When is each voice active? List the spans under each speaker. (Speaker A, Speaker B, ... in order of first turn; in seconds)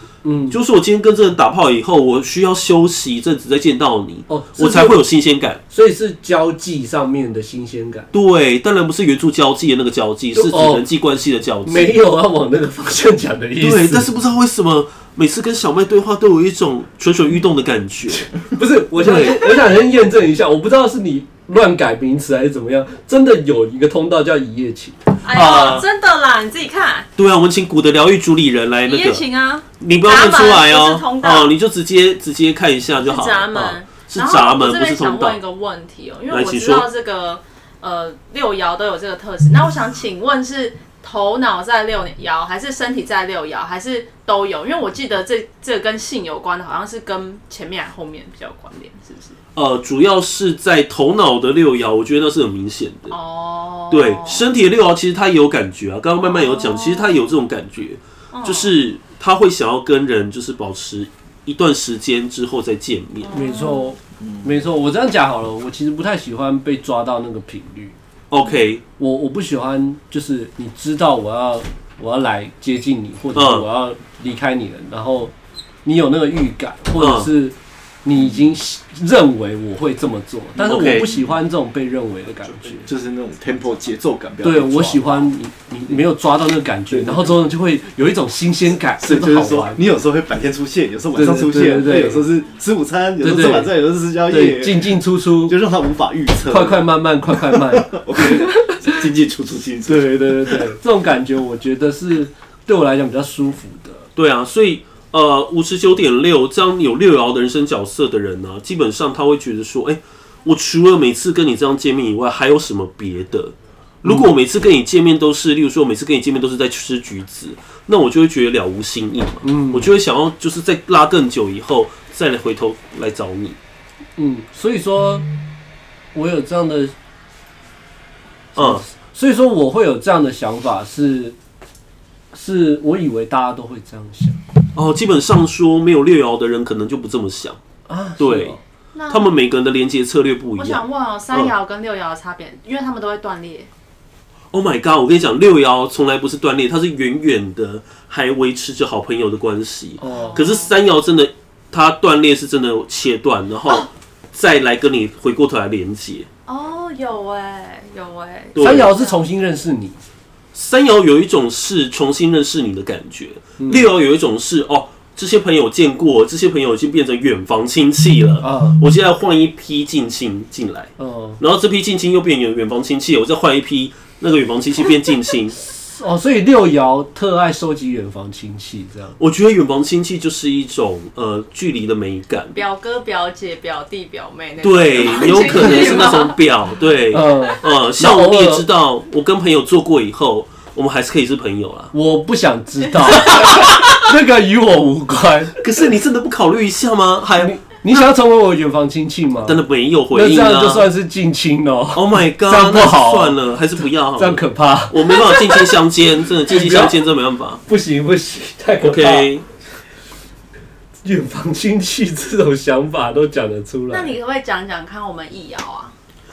Speaker A: 0.2-0.6, 4.3-5.0, 5.7-8.1, 10.3-10.8, 11.7-14.1, 18.4-25.0, 63.3-68.0, 69.0-75.3, 75.8-82.9, 84.4-89.8, 91.2-92.3, 93.2-93.7, 94.3-95.6, 96.5-98.9, 99.9-104.1, 114.0-114.3, 119.4-119.9, 124.2-125.3, 126.1-126.9, 128.6-131.4, 132.3-134.4, 137.9-138.6, 150.0-150.4, 158.6-160.0, 163.6-163.9, 168.4-168.8, 171.0-171.4, 175.6-179.2, 185.3-186.2, 187.1-188.7, 191.9-195.6, 197.4-203.4, 204.2-205.6, 206.5-207.0, 207.7-209.3, 211.0-214.2
Speaker B: 0.5-5.6, 8.1-11.9, 13.6-18.4, 19.0-19.7, 25.3-25.9, 27.2-29.3, 29.8-35.4, 36.3-36.9, 49.5-53.2, 53.9-63.4, 68.3-68.8, 73.3-73.7, 77.0-77.3, 80.6-81.1, 104.2-123.6, 128.6-128.8, 134.7-137.6, 138.2-138.6, 139.1-141.5, 144.5-156.3, 158.5-158.9, 160.5-175.6, 179.2-182.6, 184.6-191.9, 193.3-193.8, 195.6-197.5, 199.4-200.9, 201.9-207.6, 208.8-209.4
Speaker C: 25.2-27.1, 28.9-31.5, 33.0-49.4, 53.1-54.5, 56.2-57.1, 58.3-58.7, 63.2-64.0, 138.9-139.3, 140.6-143.7, 150.1-150.7, 156.5-159.2, 182.5-186.4, 213.9-215.9
Speaker D: 64.2-64.5, 82.6-85.3, 86.9-87.4, 89.0-100.8